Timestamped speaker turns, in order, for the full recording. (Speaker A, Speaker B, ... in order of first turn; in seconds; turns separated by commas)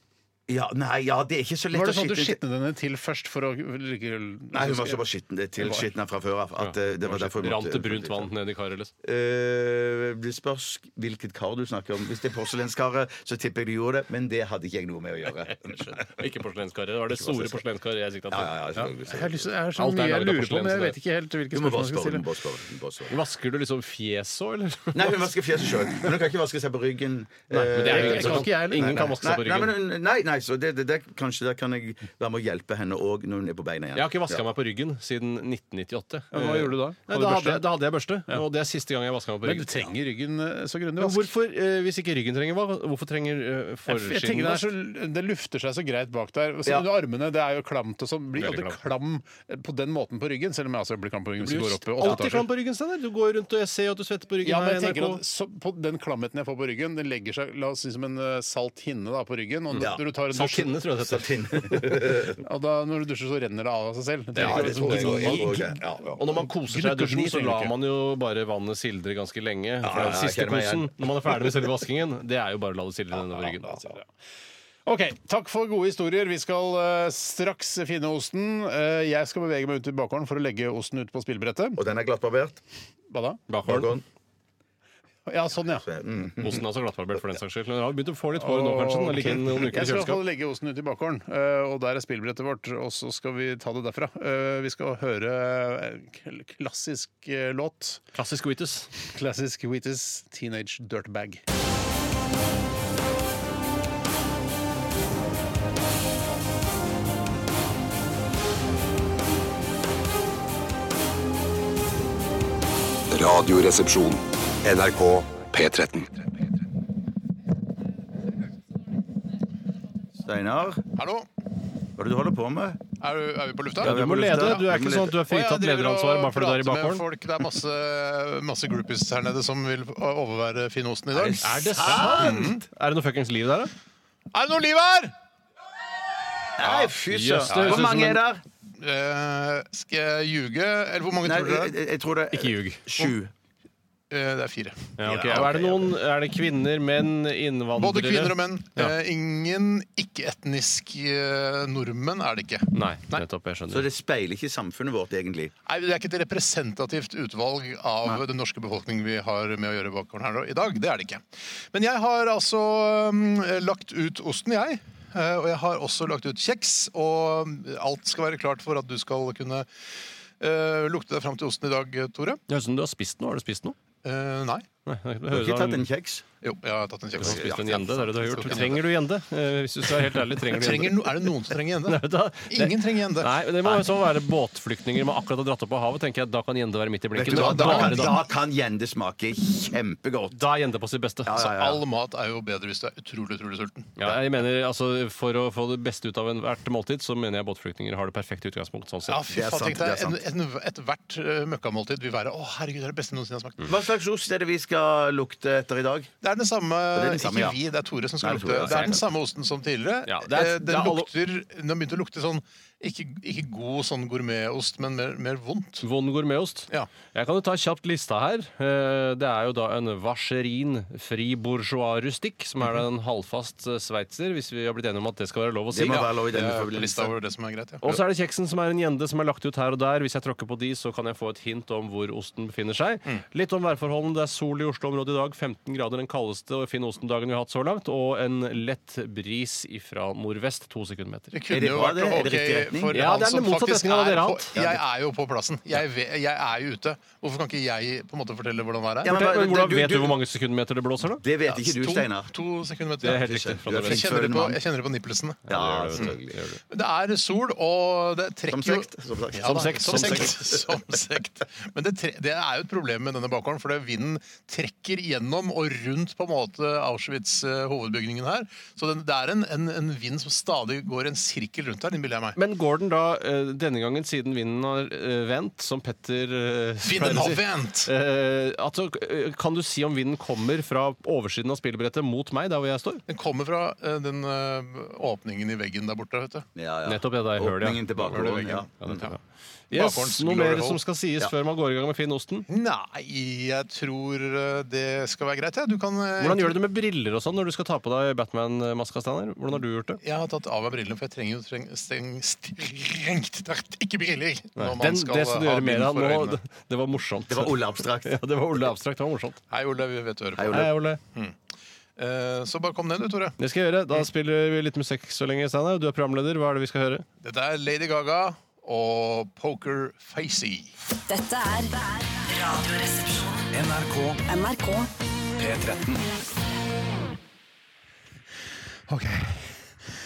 Speaker A: 0.5-2.4, Speaker B: 1.7-5.0, Speaker A: 4.5-8.3, Speaker B: 5.6-5.9, Speaker C: 6.6-8.9, Speaker A: 9.0-16.2, Speaker C: 15.7-18.5, Speaker A: 17.1-17.6, Speaker A: 18.3-19.5, Speaker B: 18.8-22.3, Speaker C: 19.8-20.9, Speaker A: 21.5-23.2, Speaker C: 23.1-25.3, Speaker A: 24.9-34.4, Speaker C: 27.5-29.8, Speaker B: 27.8-29.2, Speaker C: 34.0-39.9, Speaker B: 36.3-37.6, Speaker B: 39.4-41.3, Speaker C: 41.0-44.7, Speaker B: 43.9-52.5, Speaker C: 48.4-48.8, Speaker C: 51.4-55.2, Speaker B: 54.4-60.8, Speaker C: 59.8-61.9, Speaker A: 61.0-62.4, Speaker B: 62.4-65.8, Speaker C: 64.3-65.6, Speaker A: 64.4-66.2, Speaker C: 66.2-73.9, Speaker B: 66.7-67.8, Speaker A: 69.8-71.7, Speaker B: 74.9-81.8, Speaker A: 81.8-82.6, Speaker B: 83.1-83.4, Speaker C: 83.5-83.9, Speaker A: 83.7-84.0, Speaker B: 85.3-85.9, Speaker A: 85.8-86.6, Speaker C: 86.4-90.2, Speaker B: 88.4-98.0, Speaker C: 98.1-98.9, Speaker B: 99.1-101.4, Speaker D: 113.1-116.3, Speaker A: 120.2-120.8, Speaker B: 121.0-121.3, Speaker A: 122.0-122.8, Speaker B: 123.0-124.7, Speaker A: 123.8-125.2, Speaker C: 123.8-127.0, Speaker B: 125.3-132.6, Speaker A: 131.1-132.5, Speaker C: 131.4-133.7, Speaker B: 134.3-135.1, Speaker A: 136.6-138.4, Speaker C: 137.1-138.2, Speaker B: 137.5-138.0, Speaker B: 138.8-141.7, Speaker A: 141.2-143.3, Speaker C: 142.3-142.8, Speaker B: 144.1-145.6, Speaker C: 145.0-148.9, Speaker A: 145.0-145.9, Speaker B: 147.8-153.2, Speaker C: 152.7-153.9, Speaker A: 153.7-155.5, Speaker B: 155.7-169.7, Speaker B: 170.4-172.4, Speaker C: 172.5-173.8, Speaker B: 174.0-174.7, Speaker C: 174.9-175.9, Speaker A: 175.3-176.2, Speaker B: 176.4-178.8, Speaker C: 177.2-188.2, Speaker B: 180.5-183.3, Speaker A: 187.2-190.4, Speaker B: 187.2-188.2, Speaker C: 190.3-191.4, Speaker A: 191.2-191.8, Speaker B: 191.3-193.9, Speaker C: 194.0-199.3, Speaker B: 199.1-203.7, Speaker A: 199.3-200.2, Speaker A: 203.6-206.1, Speaker B: 206.2-215.8, Speaker A: 206.9-207.6, Speaker A: 208.2-209.0, Speaker C: 208.6-208.9, Speaker C: 210.1-211.1, Speaker C: 215.8-226.1, Speaker A: 225.7-227.1, Speaker B: 225.9-228.0, Speaker C: 227.8-241.3, Speaker B: 241.3-249.2, Speaker A: 241.5-243.0, Speaker C: 242.9-244.5, Speaker A: 249.0-250.2, Speaker C: 249.1-251.2, Speaker A: 251.2-252.3, Speaker B: 251.5-255.4, Speaker C: 253.0-254.2, Speaker A: 253.0-254.6, Speaker A: 255.5-256.4, Speaker C: 255.5-256.6, Speaker B: 256.7-272.4, Speaker A: 258.5-260.5, Speaker C: 259.4-260.4, Speaker C: 272.4-283.0, Speaker B: 276.8-277.9, Speaker B: 283.1-286.5, Speaker A: 286.6-289.1, Speaker C: 286.9-289.2, Speaker B: 288.1-289.1, Speaker C: 289.7-292.5, Speaker B: 289.7-290.8, Speaker B: 292.5-296.6, Speaker C: 296.2-300.0, Speaker B: 300.0-306.4, Speaker C: 304.6-309.4, Speaker A: 307.3-308.2, Speaker B: 309.5-311.4, Speaker A: 310.4-310.7, Speaker C: 310.5-311.0, Speaker B: 312.0-313.4, Speaker C: 313.4-317.1, Speaker B: 317.2-320.7, Speaker E: 321.1-323.5, Speaker B: 323.6-324.2, Speaker E: 324.2-324.9, Speaker B: 325.4-326.0, Speaker B: 328.9-329.8